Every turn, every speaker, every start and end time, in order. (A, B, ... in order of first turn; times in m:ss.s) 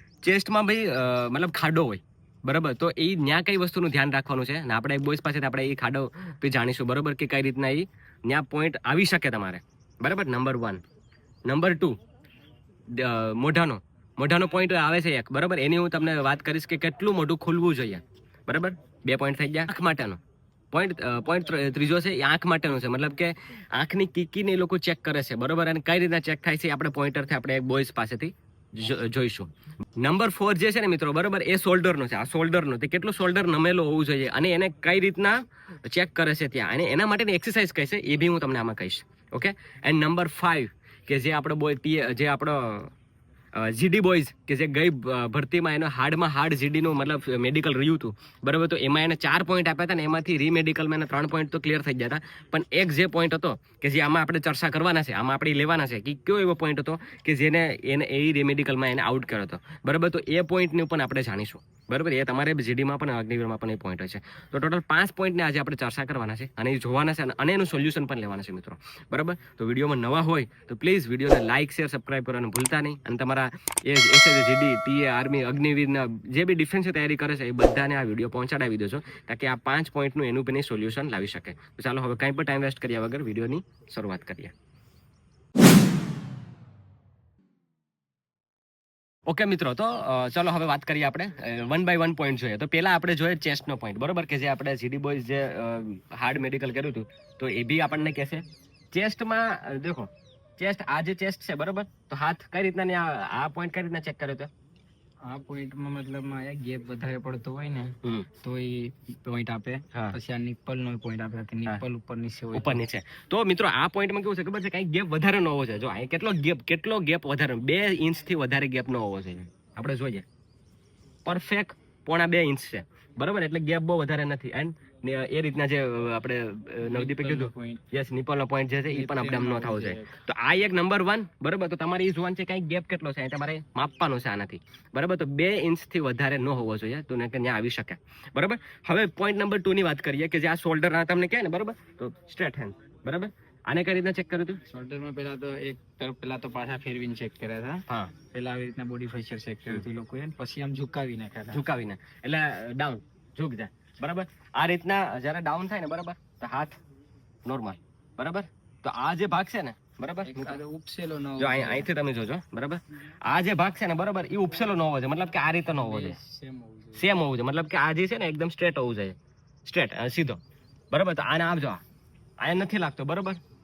0:00.2-0:10.8 A
0:11.5-0:12.0 A
0:12.9-0:20.2 A
0:20.7-0:42.9 A
0:43.5-1:24.5 A
1:29.3-1:44.5 A
1:45.2-1:52.8 B
1:48.0-1:48.3 A
1:52.5-2:00.2 A
2:01.2-2:24.6 A
2:06.8-2:07.8 B
2:08.9-2:10.2 B
2:24.7-2:31.6 B
2:27.9-2:28.1 A
2:31.5-2:36.8 A
2:37.4-2:40.6 A
2:40.2-2:41.9 B
2:41.4-2:46.2 A
2:45.7-2:47.0 B
2:46.9-2:51.8 A
2:52.4-2:53.4 A